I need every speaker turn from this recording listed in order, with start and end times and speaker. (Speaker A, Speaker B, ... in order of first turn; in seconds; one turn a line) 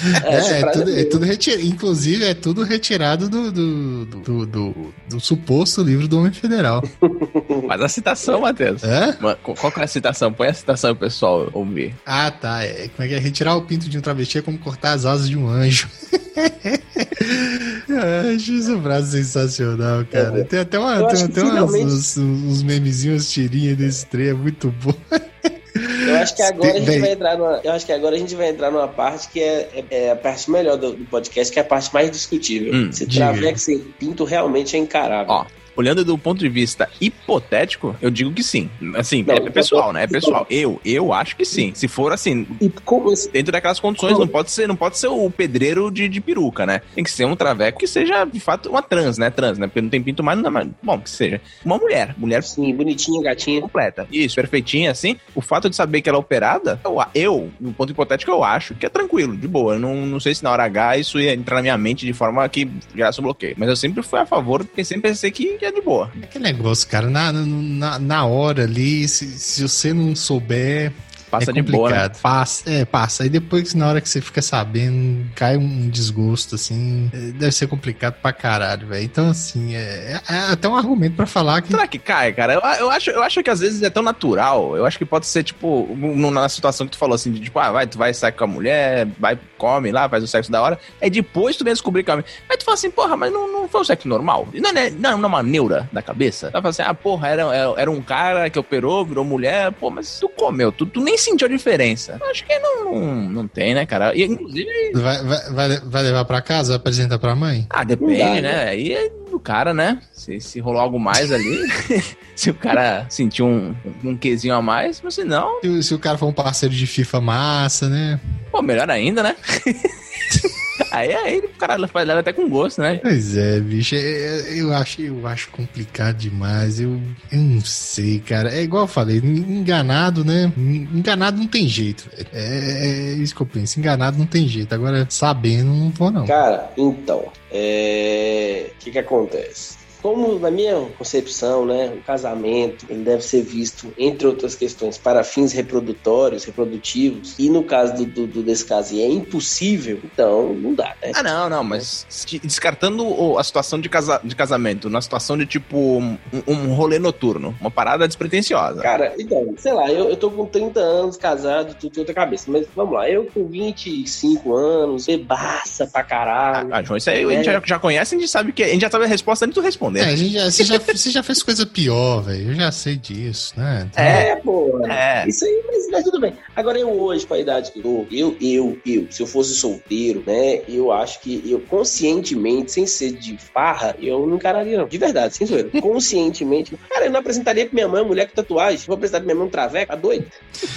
Speaker A: 0.2-1.2
Speaker B: 0.3-6.9
Speaker A: 7.0-7.7
Speaker C: 7.7-12.0
Speaker B: 8.8-9.2
Speaker B: 12.1-27.1
Speaker A: 20.1-22.0
Speaker A: 26.1-35.4
Speaker C: 32.7-33.0
Speaker B: 33.1-33.6
Speaker C: 35.3-42.6
Speaker A: 39.3-40.4
Speaker A: 42.6-43.3
Speaker C: 43.3-52.5
Speaker A: 52.4-53.7
Speaker C: 53.6-66.1
Speaker B: 66.2-81.8
Speaker C: 71.3-72.1
Speaker C: 81.7-105.0
Speaker B: 104.9-107.7
Speaker C: 107.7-115.6
Speaker A: 108.0-108.6
Speaker B: 115.6-118.2
Speaker C: 118.5-123.0
Speaker B: 123.0-136.4
Speaker A: 136.3-151.9
Speaker C: 151.1-158.9
Speaker A: 158.8-167.6
Speaker C: 166.6-170.8
Speaker B: 170.0-174.3
Speaker C: 174.0-174.3
Speaker A: 174.1-190.3
Speaker C: 174.9-175.3